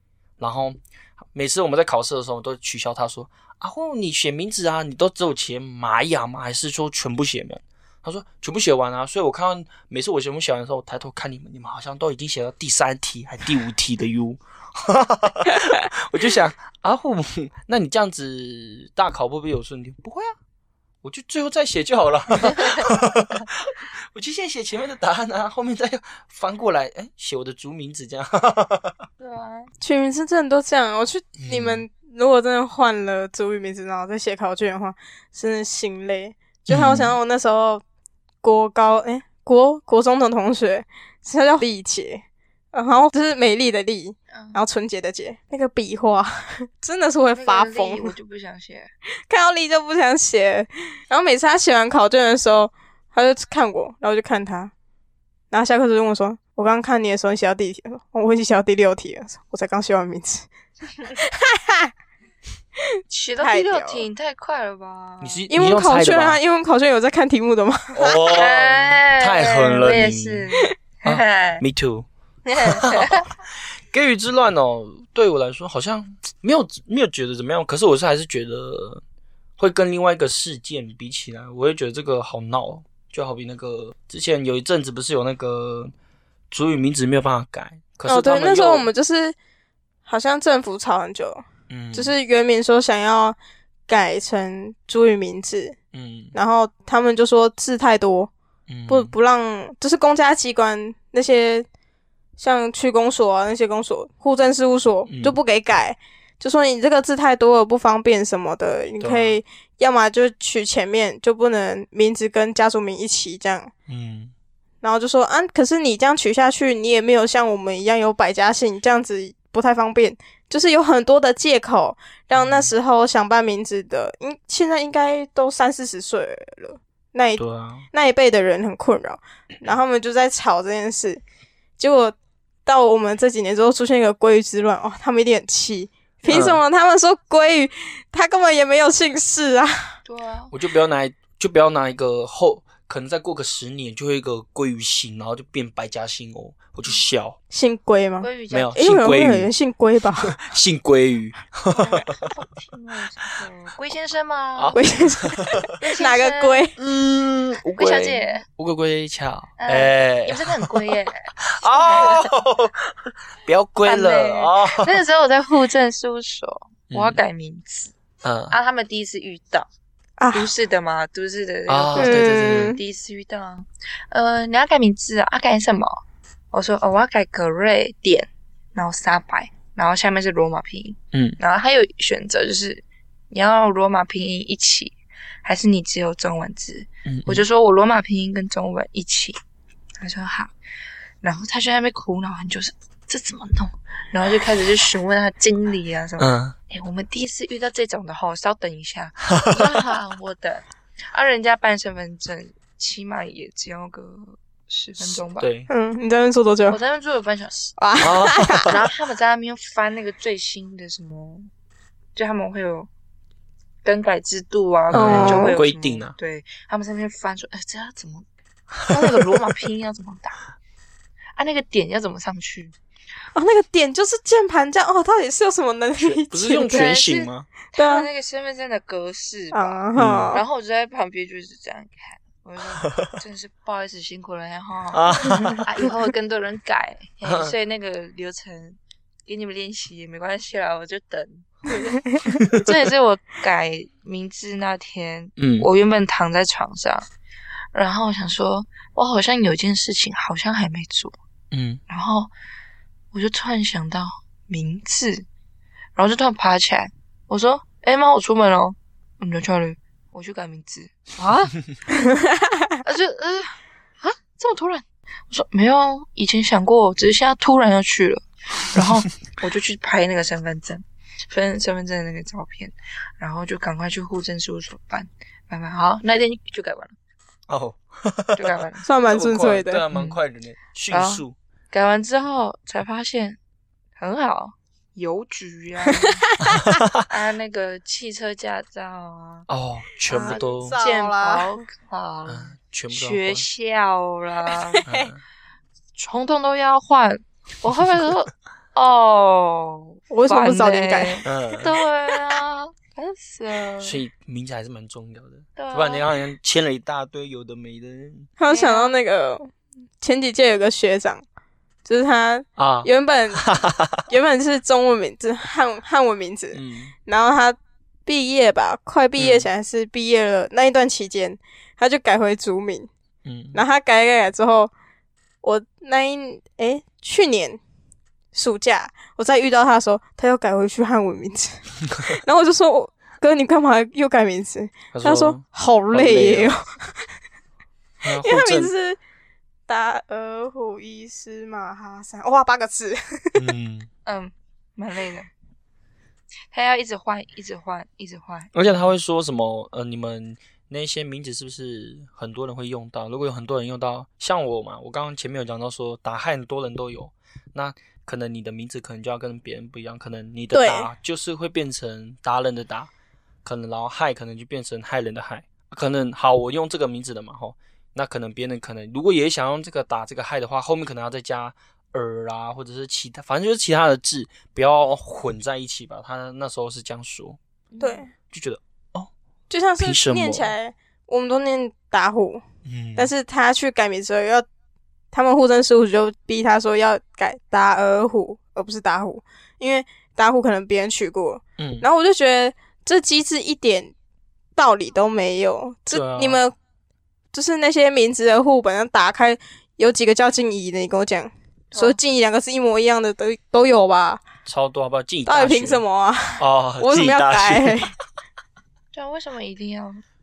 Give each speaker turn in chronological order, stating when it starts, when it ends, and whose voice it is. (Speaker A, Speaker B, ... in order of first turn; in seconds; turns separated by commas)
Speaker A: 0.4-20.3, Speaker A: 21.0-29.0, Speaker B: 29.2-29.7, Speaker C: 29.8-37.8, Speaker A: 31.4-31.9, Speaker A: 36.7-37.2, Speaker C: 38.4-48.1, Speaker B: 44.3-44.6, Speaker B: 47.3-48.9, Speaker C: 49.3-54.7, Speaker C: 55.5-60.5, Speaker C: 61.0-61.9, Speaker B: 63.1-65.5, Speaker C: 63.4-64.1, Speaker A: 65.2-66.4, Speaker C: 65.5-68.2, Speaker A: 67.9-70.5, Speaker B: 68.3-71.6, Speaker A: 71.0-72.1, Speaker B: 72.5-73.3, Speaker A: 72.6-73.2, Speaker A: 73.9-79.0, Speaker A: 79.6-85.9, Speaker A: 86.5-88.9, Speaker C: 88.0-89.3, Speaker C: 90.0-93.4, Speaker A: 91.7-92.1, Speaker C: 93.9-95.8, Speaker A: 95.9-96.3, Speaker C: 96.3-98.3, Speaker A: 98.7-99.1, Speaker C: 98.9-101.7, Speaker C: 102.4-113.7, Speaker A: 105.1-105.3, Speaker A: 109.0-109.4, Speaker A: 113.9-114.3, Speaker C: 114.8-131.2, Speaker A: 122.3-122.7, Speaker A: 127.4-127.8, Speaker C: 131.8-139.9, Speaker A: 136.3-136.6, Speaker B: 140.0-140.5, Speaker A: 140.5-147.4, Speaker C: 147.5-150.4, Speaker B: 148.2-148.7, Speaker A: 148.5-149.5, Speaker A: 150.2-152.2, Speaker B: 151.7-154.8, Speaker A: 154.6-155.6, Speaker C: 154.7-156.8, Speaker B: 155.8-156.7, Speaker A: 156.8-165.0, Speaker B: 157.8-158.4, Speaker B: 159.6-162.3, Speaker B: 163.8-167.9, Speaker A: 166.9-167.2, Speaker A: 168.2-168.5, Speaker B: 168.5-169.7, Speaker C: 170.2-170.5, Speaker B: 170.3-189.4, Speaker A: 171.7-172.8, Speaker C: 171.9-172.8, Speaker A: 181.1-181.4, Speaker A: 187.0-187.4, Speaker B: 190.0-190.5, Speaker B: 191.2-205.5, Speaker A: 196.2-196.5, Speaker A: 199.3-199.7, Speaker A: 205.0-205.7, Speaker C: 205.7-206.8, Speaker B: 206.7-207.8, Speaker C: 207.8-208.7, Speaker A: 208.0-208.8, Speaker B: 208.6-211.5, Speaker B: 212.1-212.9, Speaker B: 213.8-218.2, Speaker A: 214.9-216.1, Speaker C: 214.9-215.6, Speaker B: 218.9-220.4, Speaker B: 221.3-222.7, Speaker C: 223.3-226.9, Speaker A: 226.0-227.5, Speaker B: 226.6-247.1, Speaker C: 227.7-228.1, Speaker C: 229.5-230.4, Speaker A: 229.9-230.4, Speaker A: 232.8-233.1, Speaker A: 234.9-235.7, Speaker A: 237.2-237.5, Speaker A: 242.4-242.6, Speaker A: 245.4-245.7, Speaker B: 247.7-251.2, Speaker A: 251.5-251.8, Speaker B: 251.9-252.3, Speaker B: 253.1-255.2, Speaker B: 255.9-261.6, Speaker B: 262.8-276.9, Speaker A: 277.5-281.3, Speaker B: 278.3-278.9, Speaker C: 278.8-279.8, Speaker B: 279.9-280.2, Speaker B: 280.9-283.4, Speaker B: 284.0-286.3, Speaker C: 286.4-286.6, Speaker A: 286.4-287.0, Speaker B: 287.0-289.5, Speaker A: 289.5-290.8, Speaker C: 290.1-291.5, Speaker B: 290.1-294.8, Speaker A: 292.3-293.5, Speaker C: 294.7-295.1, Speaker A: 294.9-295.2, Speaker B: 295.9-304.0, Speaker C: 300.1-301.2, Speaker A: 301.2-301.7, Speaker A: 303.8-308.3, Speaker B: 305.6-306.0, Speaker C: 308.4-311.2, Speaker B: 308.5-308.9, Speaker C: 311.9-313.5, Speaker A: 312.6-314.0, Speaker C: 314.1-322.9, Speaker A: 316.5-316.9, Speaker A: 319.2-319.5, Speaker A: 323.2-323.6, Speaker C: 323.5-324.7, Speaker C: 325.4-327.6, Speaker C: 328.3-336.8, Speaker A: 334.9-336.5, Speaker A: 338.0-338.7, Speaker C: 338.1-339.0, Speaker C: 339.7-343.5, Speaker A: 343.3-343.9, Speaker B: 344.1-345.3, Speaker B: 346.5-348.5, Speaker A: 348.5-362.9, Speaker C: 360.5-360.9, Speaker A: 363.4-377.4, Speaker B: 377.7-378.1, Speaker C: 377.8-378.1, Speaker A: 378.3-379.1, Speaker C: 379.5-382.4, Speaker A: 379.8-380.5, Speaker A: 382.6-383.1, Speaker C: 382.9-384.4, Speaker C: 385.1-393.9, Speaker A: 391.6-391.9, Speaker C: 394.6-396.5, Speaker A: 395.9-396.4, Speaker C: 397.3-404.2, Speaker A: 404.4-405.8, Speaker C: 405.3-407.9, Speaker A: 406.4-407.9, Speaker B: 408.9-410.0